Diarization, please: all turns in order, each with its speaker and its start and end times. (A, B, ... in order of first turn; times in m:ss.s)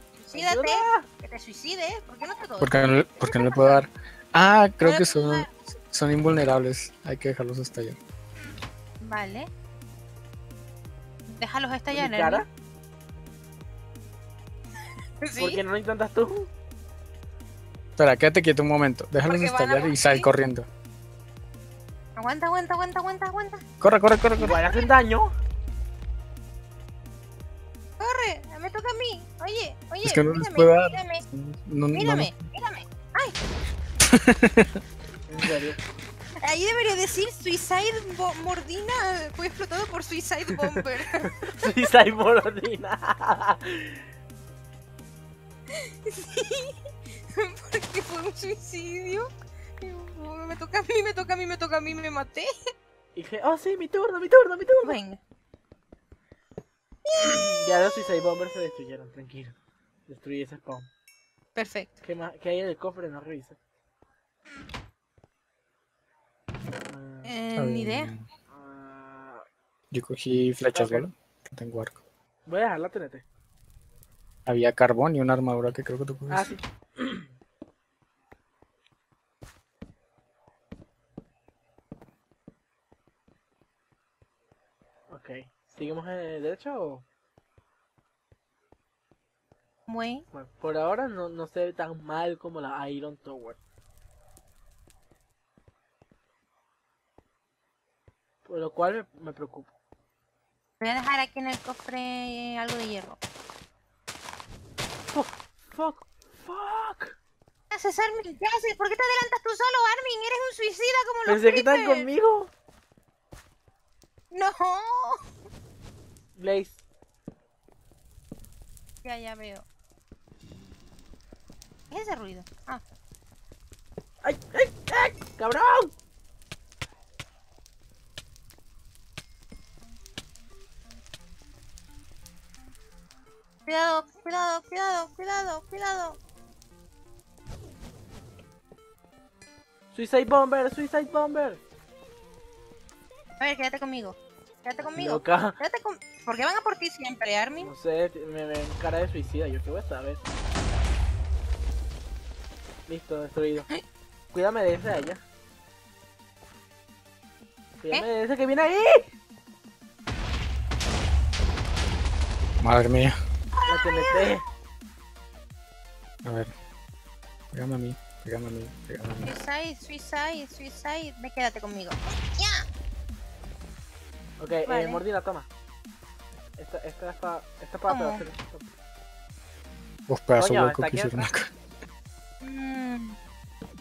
0:00.2-0:03.8 A
0:00.3-0:01.1 B
0:02.6-0:08.0 C
0:04.8-0:05.5 A
0:09.0-0:09.5 A
0:11.3-0:12.5 A
0:11.9-0:12.5 B
0:15.2-0:15.6 A
0:15.4-0:16.5 B
0:18.0-0:20.7 C
0:19.2-0:20.3 A
0:22.2-0:23.6 A
0:23.8-0:24.6 C
0:24.4-0:25.3 B
0:28.0-0:31.2 A
0:30.0-0:32.4 C
0:31.9-0:33.4 A
0:34.1-0:34.8 C
0:35.3-0:35.8 B
0:36.4-0:41.8 A
0:40.6-0:44.0 B
0:45.7-0:46.8 A
0:47.3-0:49.3 A
0:49.8-0:52.5 A
0:53.2-0:55.0 B
0:54.8-0:55.2 A
0:57.1-0:57.3 A
0:57.2-0:59.6 B
1:00.1-1:00.9 B
1:01.6-1:02.0 A
1:02.0-1:03.6 B
1:06.9-1:07.4 B
1:07.2-1:08.1 A
1:07.6-1:08.3 C
1:08.5-1:09.4 B
1:09.9-1:12.0 C
1:10.7-1:11.1 B
1:12.5-1:13.2 B
1:14.5-1:16.5 C
1:16.3-1:17.3 B
1:25.1-1:27.0 B
1:29.9-1:30.2 A
1:30.3-1:33.6 B
1:38.4-1:39.7 B
1:40.8-1:43.2 A
1:45.1-1:47.2 B
1:47.7-1:52.1 A
1:51.3-1:52.5 B
1:54.3-1:55.2 A
1:56.4-1:56.8 B
1:59.0-1:59.7 A
2:01.9-2:02.8 A
2:04.2-2:05.9 B
2:13.7-2:16.2 A
2:19.9-2:21.6 B
2:23.4-2:27.7 A
2:25.0-2:25.6 B
2:27.6-2:30.2 B
2:32.9-2:33.7 B
2:34.3-2:35.2 B
2:37.8-2:39.0 B
2:42.6-2:43.2 C
2:43.6-2:44.3 A
2:43.7-2:44.4 B
2:46.2-2:46.5 C
2:47.5-2:49.3 C
2:49.2-2:52.7 A
2:54.4-2:55.5 B
2:54.7-2:55.0 A
2:56.6-2:58.6 B
2:57.9-2:58.2 A
3:00.1-3:01.5 C
3:00.4-3:01.3 B
3:02.4-3:03.2 A